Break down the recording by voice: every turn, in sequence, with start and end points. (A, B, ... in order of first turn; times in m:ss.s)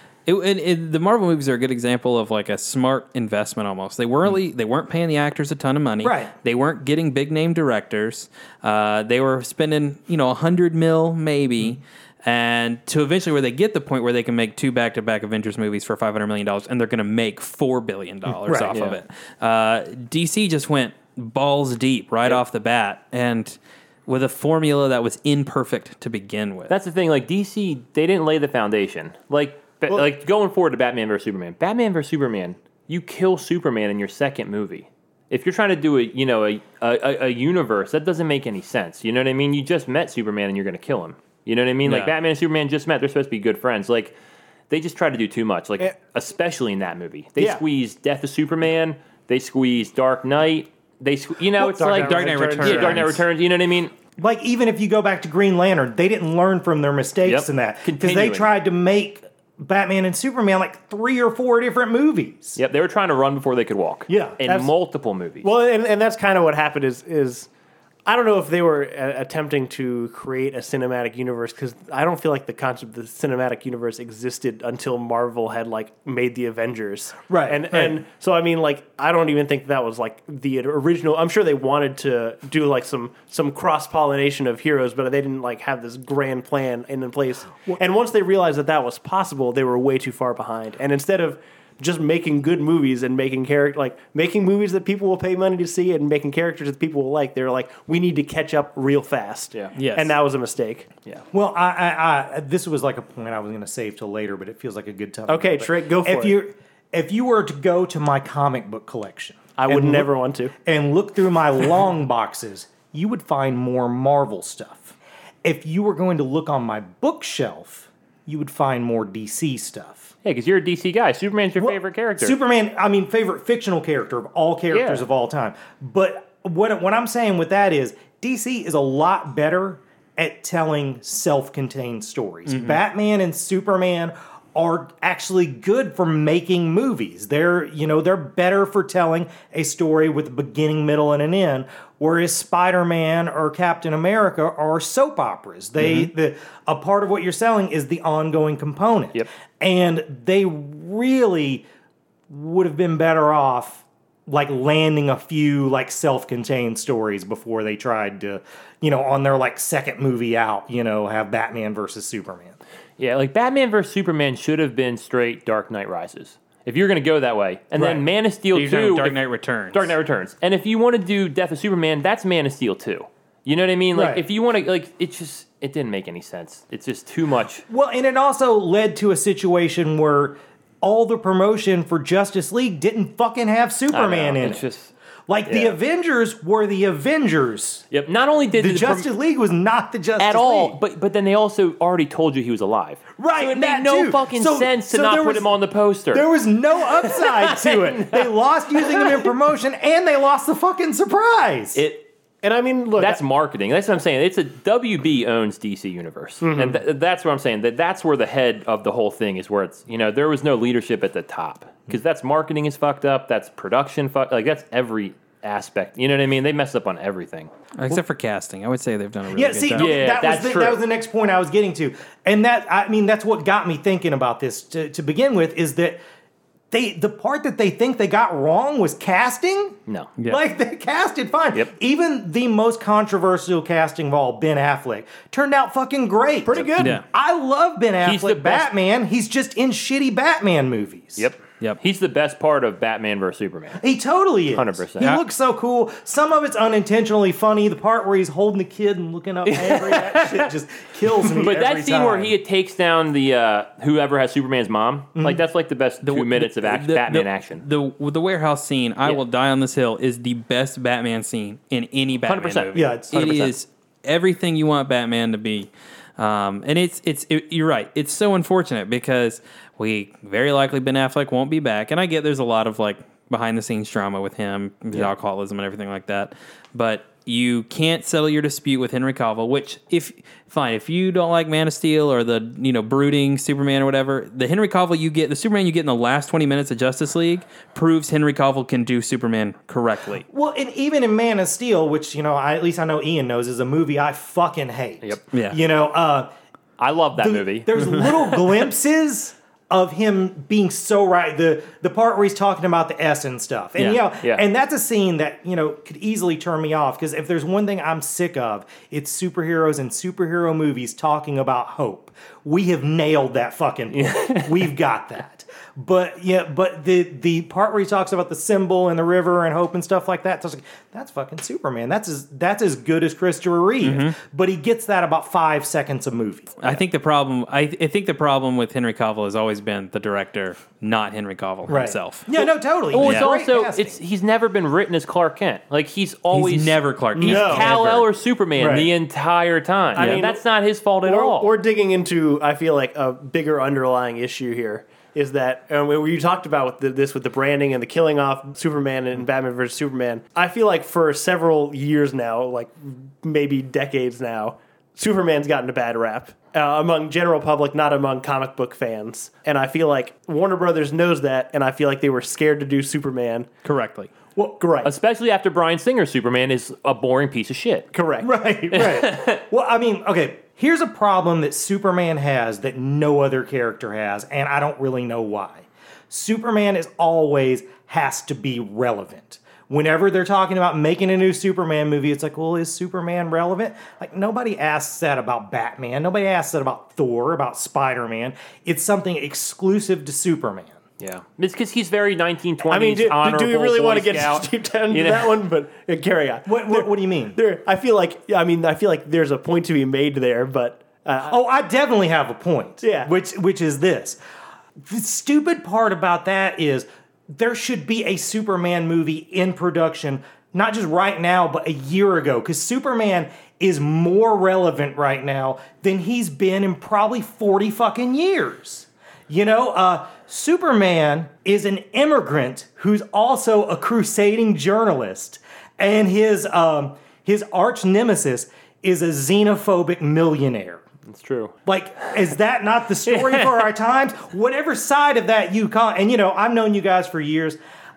0:00.2-0:26.8 A
0:06.0-0:06.3 B
0:18.4-0:18.7 B
0:18.7-0:19.0 C
0:26.7-0:44.2 C
0:41.8-0:42.1 A
0:44.7-0:53.9 C
0:51.6-0:53.2 D
0:51.9-0:53.2 A
0:54.2-1:02.6 B
0:57.2-0:58.5 C
1:02.6-1:05.5 C
1:04.1-1:04.4 B
1:04.4-1:04.7 D
1:05.4-1:07.5 D
1:08.0-1:40.9 D
1:17.3-1:18.0 B
1:39.8-1:40.1 A
1:41.3-1:50.1 B
1:45.3-1:46.4 D
1:49.6-1:50.5 D
1:50.6-2:00.1 B
2:00.2-2:02.4 C
2:01.6-2:31.6 B
2:04.7-2:05.0 C
2:12.5-2:12.8 A
2:32.3-2:42.6 B
2:43.0-2:49.2 C
2:47.8-2:48.0 B
2:48.5-2:49.9 A
2:49.7-2:57.6 C
2:53.9-2:54.2 B
2:57.7-3:04.6 B
3:03.9-3:04.9 C
3:05.3-3:07.8 B
3:05.5-3:05.8 C
3:07.9-3:09.1 C
3:08.6-3:10.8 B
3:10.2-3:16.2 C
3:13.2-3:15.5 B
3:16.1-3:21.8 B
3:16.8-3:19.2 C
3:22.4-3:23.2 D
3:23.0-3:37.5 C
3:26.4-3:26.8 D
3:37.8-3:40.0 A
3:39.3-3:46.0 B
3:39.7-3:40.8 C
3:46.7-4:01.3 B
3:56.4-3:57.0 D
3:56.8-3:57.0 A
3:58.0-3:58.7 C
4:01.2-4:03.8 C
4:03.8-4:12.3 B
4:04.5-4:05.2 C
4:09.4-4:10.5 C
4:11.3-4:17.6 C
4:15.2-4:15.4 B
4:16.0-4:50.2 A
4:22.2-4:23.5 C
4:22.7-4:23.5 B
4:50.3-4:56.3 B
4:55.3-4:55.6 A
4:56.8-4:58.6 C
4:57.2-5:26.8 B
5:13.9-5:14.7 C
5:23.8-5:24.2 A
5:26.6-5:32.2 A
5:31.7-5:34.0 B
5:32.9-5:41.5 C
5:33.0-5:33.3 A
5:36.3-5:38.1 A
5:37.2-5:37.7 D
5:38.6-5:38.9 B
5:39.9-5:40.4 D
5:40.0-5:40.2 A
5:41.0-6:03.5 D
6:03.6-6:04.1 A
6:04.6-6:04.9 D
6:04.8-6:07.9 C
6:07.9-6:08.3 D
6:08.2-6:30.8 B
6:08.7-6:09.4 C
6:31.0-6:35.4 C
6:32.7-6:41.4 D
6:36.4-6:37.4 B
6:41.2-6:44.2 B
6:42.8-6:43.1 D
6:44.8-7:10.8 B
7:11.0-7:11.5 C
7:11.6-7:17.6 B
7:13.1-7:13.5 C